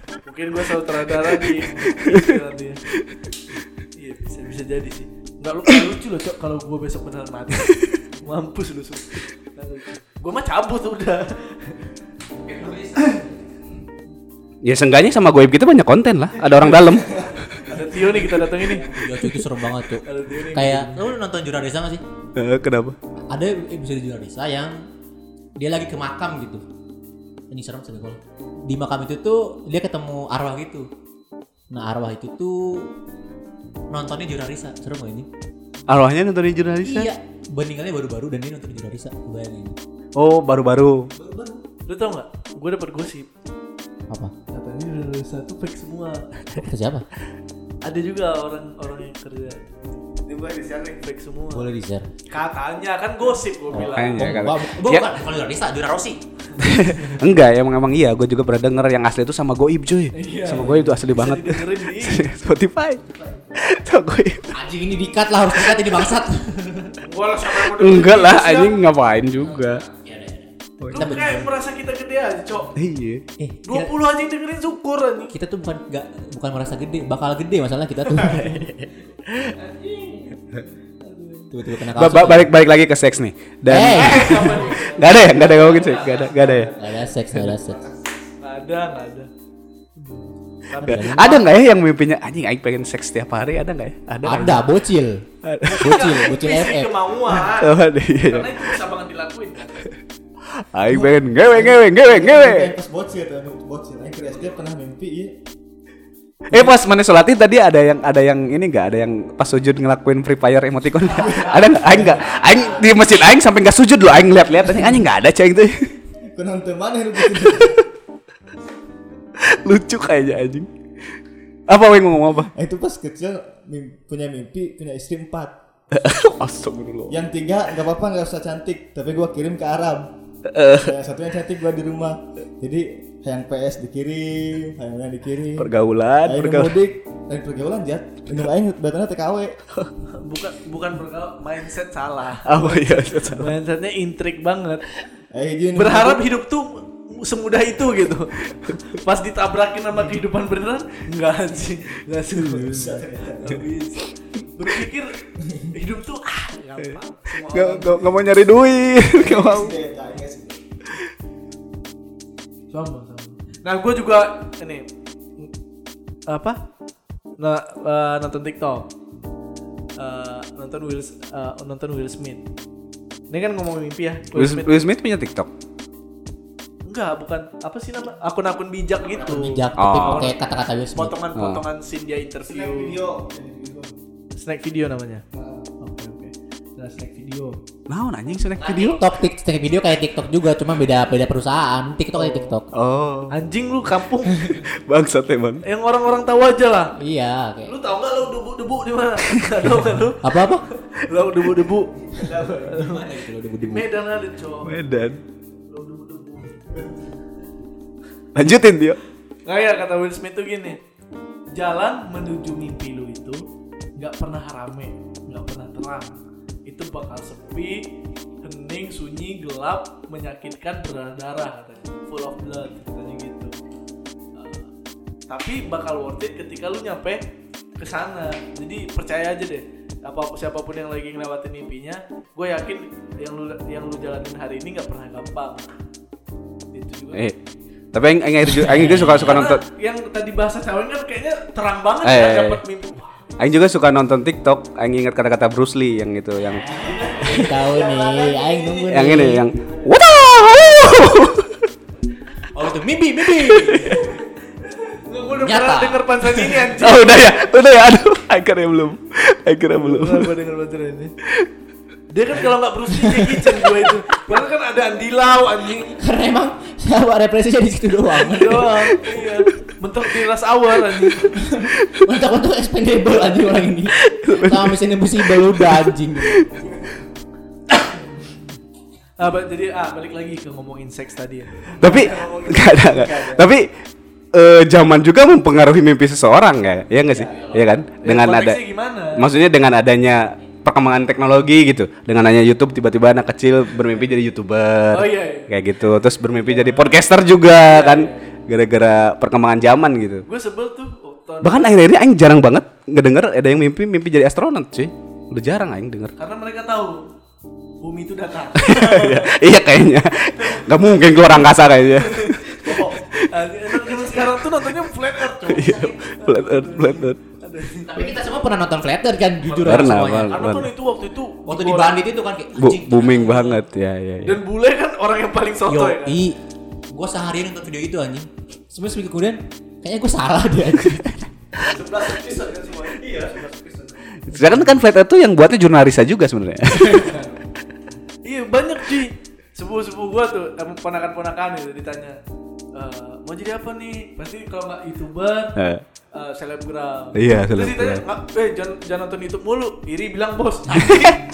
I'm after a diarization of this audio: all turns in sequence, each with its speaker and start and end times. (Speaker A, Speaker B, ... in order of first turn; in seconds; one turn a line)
Speaker A: 0.2-2.8
Speaker B: 1.2-2.4
Speaker A: 4.0-11.8
Speaker C: 12.5-13.2
Speaker B: 14.6-17.4
Speaker D: 16.7-18.8
Speaker A: 17.6-19.3
Speaker C: 18.9-22.0
Speaker A: 20.0-21.0
Speaker B: 22.4-23.0
Speaker C: 23.3-24.9
Speaker C: 25.6-26.6
Speaker C: 27.5-30.9
Speaker C: 31.7-32.9
Speaker C: 33.9-35.3
Speaker B: 35.9-37.1
Speaker C: 36.8-39.8
Speaker B: 40.1-41.1
Speaker C: 41.2-41.6
Speaker A: 41.9-43.3
Speaker A: 44.5-46.6
Speaker C: 46.6-47.1
Speaker A: 47.8-49.6
Speaker D: 50.2-51.0
Speaker A: 51.0-51.7
Speaker C: 51.5-52.1
Speaker A: 52.3-54.4
Speaker C: 53.7-56.2
Speaker B: 53.8-55.1
Speaker A: 56.5-57.2
Speaker B: 56.6-63.0
Speaker A: 60.1-62.2
Speaker D: 63.1-63.6
Speaker B: 63.5-64.6
Speaker C: 64.5-67.0
Speaker B: 65.5-66.0
Speaker A: 67.0-68.8
Speaker B: 67.5-69.8
Speaker C: 69.5-71.5
Speaker B: 70.8-71.2
Speaker A: 70.9-72.7
Speaker B: 72.8-73.2
Speaker C: 73.4-73.9
Speaker A: 73.7-75.3
Speaker C: 75.3-78.7
Speaker B: 78.3-79.6
Speaker A: 79.5-80.4
Speaker A: 81.0-81.5
Speaker C: 81.5-82.5
Speaker B: 81.9-86.7
Speaker C: 83.7-84.8
Speaker A: 83.8-86.3
Speaker D: 85.1-88.0
Speaker C: 86.8-87.8
Speaker A: 88.4-89.3
Speaker A: 90.0-91.5
Speaker C: 90.8-91.3
Speaker B: 90.8-94.7
Speaker C: 94.2-96.9
Speaker B: 95.4-96.1
Speaker A: 95.7-99.9
Speaker B: 97.3-98.8
Speaker B: 100.5-102.8
Speaker D: 100.9-105.4
Speaker B: 106.5-115.9
Speaker D: 111.1-112.8
Speaker C: 111.2-112.9
Speaker D: 116.3-117.8
Speaker B: 117.3-117.8
Speaker B: 119.4-120.7
Speaker B: 121.7-122.5
Speaker D: 122.5-125.5
Speaker B: 125.9-127.2
Speaker D: 127.1-130.1
Speaker B: 130.5-130.9
Speaker D: 130.6-135.7
Speaker B: 135.6-136.8
Speaker D: 136.2-139.6
Speaker A: 140.1-144.9
Speaker B: 142.4-143.5
Speaker D: 145.3-146.2
Speaker A: 145.8-158.1
Speaker D: 152.4-153.6
Speaker B: 157.5-159.7
Speaker D: 159.1-160.6
Speaker A: 162.7-164.9
Speaker A: 166.3-166.6
Speaker A: 167.4-168.8
Speaker A: 170.0-172.4
Speaker A: 173.3-174.9
Speaker B: 174.3-175.5
Speaker A: 176.9-180.4
Speaker C: 179.2-181.2
Speaker B: 179.8-180.3
Speaker A: 180.9-183.0
Speaker B: 181.3-181.6
Speaker D: 182.4-184.0
Speaker A: 184.3-185.2
Speaker D: 185.3-185.7
Speaker A: 185.8-187.6
Speaker B: 187.9-189.0
Speaker C: 188.6-192.7
Speaker B: 192.7-193.3
Speaker A: 193.3-194.6
Speaker B: 194.5-195.7
Speaker A: 195.7-197.0
Speaker C: 197.0-197.7
Speaker A: 197.7-204.8
Speaker B: 199.3-199.6
Speaker C: 200.2-200.6
Speaker C: 202.2-203.9
Speaker B: 204.7-205.2
Speaker A: 205.7-206.6
Speaker B: 208.3-209.0
Speaker A: 209.5-210.8
Speaker A: 211.5-213.4
Speaker A: 214.0-217.9
Speaker A: 218.4-223.6
Speaker A: 224.3-224.7
Speaker A: 225.3-227.2
Speaker A: 227.8-235.7
Speaker A: 236.7-237.2
Speaker B: 237.9-239.6
Speaker C: 238.4-239.4
Speaker A: 239.0-243.2
Speaker B: 242.0-242.6
Speaker B: 243.4-247.4
Speaker C: 246.7-249.4
Speaker D: 246.8-248.9
Speaker B: 248.9-251.7
Speaker D: 249.5-250.0
Speaker C: 252.5-254.0
Speaker B: 253.3-254.0
Speaker A: 253.8-257.3
Speaker C: 255.3-256.5
Speaker B: 256.7-260.3
Speaker A: 259.7-261.1
Speaker A: 262.1-265.9
Speaker C: 263.0-263.3
Speaker C: 266.0-269.0
Speaker A: 268.2-271.4
Speaker C: 271.4-276.6
Speaker B: 271.8-272.1
Speaker B: 273.9-276.7
Speaker A: 279.2-282.4
Speaker B: 281.8-283.7
Speaker D: 282.0-283.4
Speaker B: 284.3-288.6
Speaker C: 287.1-287.7
Speaker A: 288.0-289.3
Speaker B: 289.1-300.2
Speaker A: 294.9-295.6
Speaker A: 296.4-298.4
Speaker A: 300.3-301.8
Speaker B: 301.4-306.1
Speaker A: 306.2-307.1
Speaker A: 307.8-309.4
Speaker B: 308.6-313.3
Speaker A: 310.4-318.2
Speaker B: 315.4-317.2
Speaker C: 315.4-315.9
Speaker C: 317.9-320.4
Speaker A: 319.5-322.0
Speaker B: 319.6-320.7
Speaker C: 321.5-323.6
Speaker B: 322.6-324.4
Speaker A: 324.2-326.2
Speaker C: 325.7-326.4
Speaker C: 326.9-331.3
Speaker A: 331.6-333.4
Speaker D: 331.7-334.1
Speaker B: 334.2-337.2
Speaker A: 336.7-337.4
Speaker A: 338.2-342.2
Speaker A: 342.8-345.6
Speaker B: 345.6-345.8
Speaker A: 346.1-351.2
Speaker B: 347.1-348.0
Speaker B: 350.8-351.1